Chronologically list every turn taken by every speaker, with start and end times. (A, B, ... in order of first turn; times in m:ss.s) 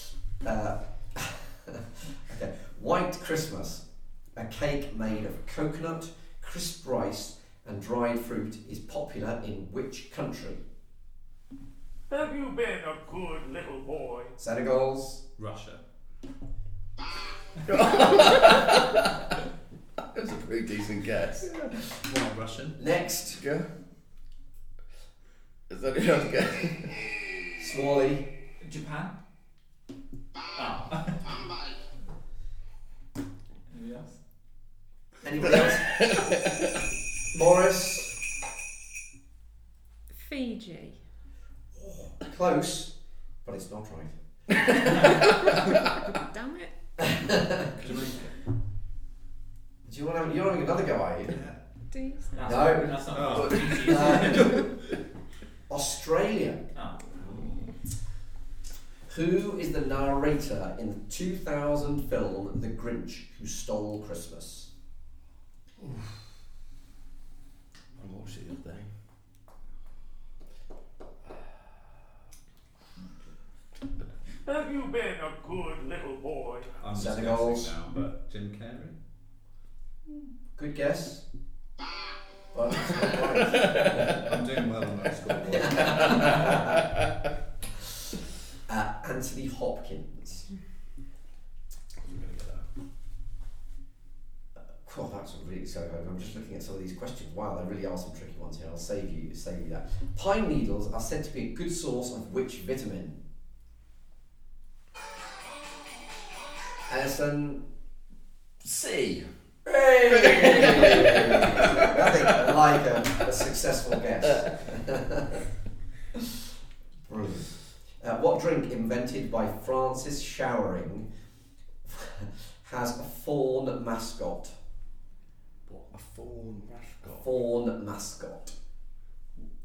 0:00.4-0:01.6 A
0:02.2-0:10.6 A
0:12.1-0:14.3 B
0:14.4-0:15.2 A
0:15.4-0:15.8 C
0:17.7-0:19.1 D
0:20.1-0:21.7 D
0:22.0-0:22.8 C
0:22.8-0:23.4 A
0:23.4-0:23.7 D
0:25.7-0:27.1 D
0:27.6-0:28.3 A
0:28.6-0:29.2 E
0:30.5-0:31.4 E
0:33.7-0:34.2 E
0:35.2-0:35.9 A
0:35.8-0:36.4 D
0:37.3-0:38.2 A
0:40.1-0:41.0 F
0:41.8-0:42.9 A
0:43.4-0:44.1 A
0:46.1-0:46.7 F
0:47.8-0:48.3 C
0:49.8-0:51.4 A
0:51.3-0:51.6 C
0:51.9-0:52.5 F
0:52.3-0:54.4 E
0:52.4-0:53.0 A
0:53.1-0:54.8 C
0:53.8-0:54.6 A
0:55.7-0:57.7 A
0:56.7-0:57.0 E
0:59.1-1:04.7 A
1:05.8-1:06.2 D
1:08.0-1:08.9 D
1:14.5-1:16.7 B
1:16.8-1:18.9 C
1:16.9-1:17.8 A
1:20.5-1:21.2 A
1:22.5-1:24.2 A
1:24.2-1:26.3 C
1:25.4-1:26.6 A
1:26.1-1:26.5 D
1:28.7-1:30.5 A
1:32.1-1:32.6 D
1:34.8-1:43.2 A
1:46.9-1:47.6 A
1:48.6-1:49.3 D
1:49.6-1:55.4 A
1:50.0-1:51.9 D
1:57.1-2:01.1 A
2:01.9-2:04.6 A
2:05.9-2:07.3 D
2:07.1-2:08.6 A